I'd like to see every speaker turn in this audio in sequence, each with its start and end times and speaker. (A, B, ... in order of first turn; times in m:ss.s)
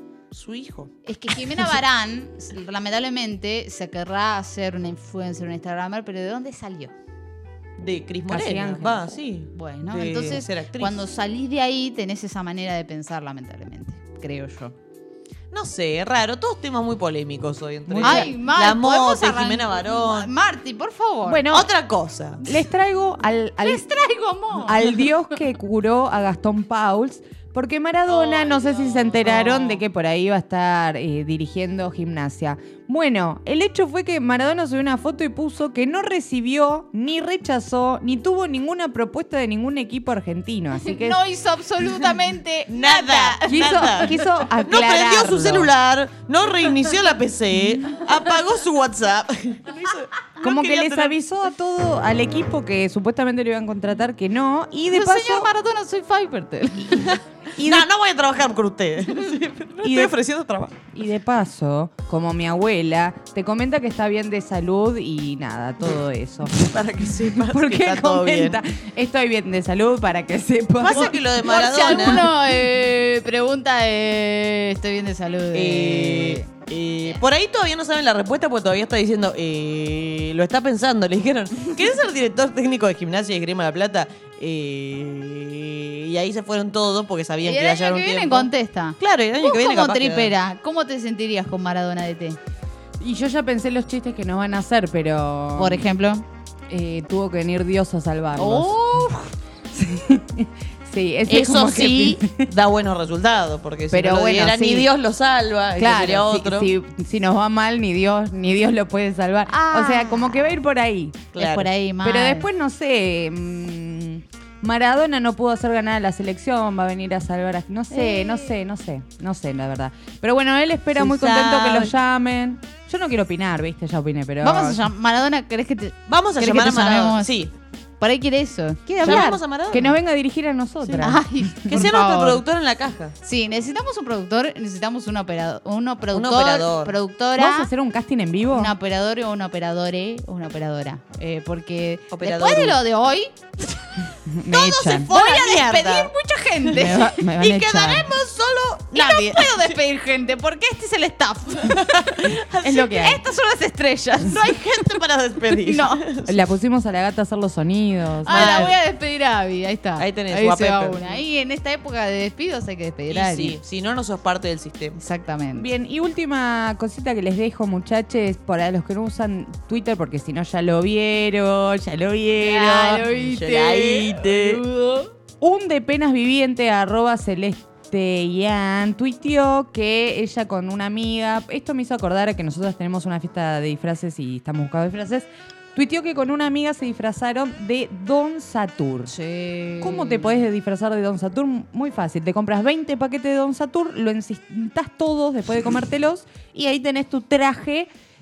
0:00.3-0:01.7 A
0:01.1-0:06.9 B
0:07.8-0:11.0 A
0:08.3-0:09.0 C
0:09.5-0:14.7 B
0:15.5-0:20.3 A
0:17.9-0:18.3 C
0:18.0-0:21.5 B
0:21.3-0:21.7 C
0:21.5-0:22.4 A
0:22.4-0:23.8 C
0:23.6-0:25.1 B
0:24.6-0:41.2 C
0:28.1-0:29.3 B
0:28.3-0:29.8 A
0:40.8-0:44.0 B
0:42.7-0:51.2 A
0:43.5-0:45.7 C
0:50.4-0:55.5 C
0:54.9-0:57.2 B
0:56.9-1:00.8 A
0:57.6-0:57.9 C
0:59.8-1:00.2 C
1:00.9-1:06.6 C
1:06.5-1:08.6 A
1:07.3-1:12.3 C
1:10.8-1:12.3 A
1:10.9-1:16.5 B
1:15.5-1:30.3 A
1:27.4-1:32.4 B
1:33.0-1:35.9 C
1:35.6-1:36.2 B
1:36.7-1:39.1 C
1:38.4-1:39.3 B
1:39.7-1:42.5 C
1:41.3-1:46.7 A
1:43.9-1:44.9 C
1:45.8-1:51.3 C
1:45.9-1:46.2 B
1:49.5-1:50.5 B
1:51.3-1:51.7 A
1:51.4-1:52.5 B
1:52.0-2:04.8 C
1:57.9-1:58.5 B
2:01.0-2:01.9 A
2:04.4-2:07.5 B
2:06.1-2:07.5 A
2:08.0-2:09.4 B
2:09.0-2:10.0 A
2:09.0-2:11.8 C
2:10.8-2:11.1 A
2:11.0-2:12.4 B
2:11.7-2:13.2 A
2:13.2-2:17.7 B
2:16.1-2:17.0 A
2:17.4-2:18.7 C
2:18.5-2:24.0 B
2:22.1-2:22.8 A
2:24.3-2:25.1 C
2:24.5-2:26.1 A
2:24.9-2:28.2 B
2:26.7-2:28.1 C
2:27.7-2:29.8 A
2:28.9-2:35.0 B
2:31.6-2:33.0 A
2:32.6-2:33.2 C
2:34.3-2:36.4 A
2:35.5-2:36.0 B
2:36.3-2:38.7 C
2:38.2-2:43.6 B
2:38.3-2:38.8 A
2:40.0-2:41.0 A
2:43.1-2:45.0 A
2:45.0-2:45.7 B
2:45.5-2:53.0 C
2:52.4-2:55.1 B
2:52.7-2:54.6 A
2:55.4-3:09.1 C
3:09.1-3:10.5 B
3:09.8-3:17.9 C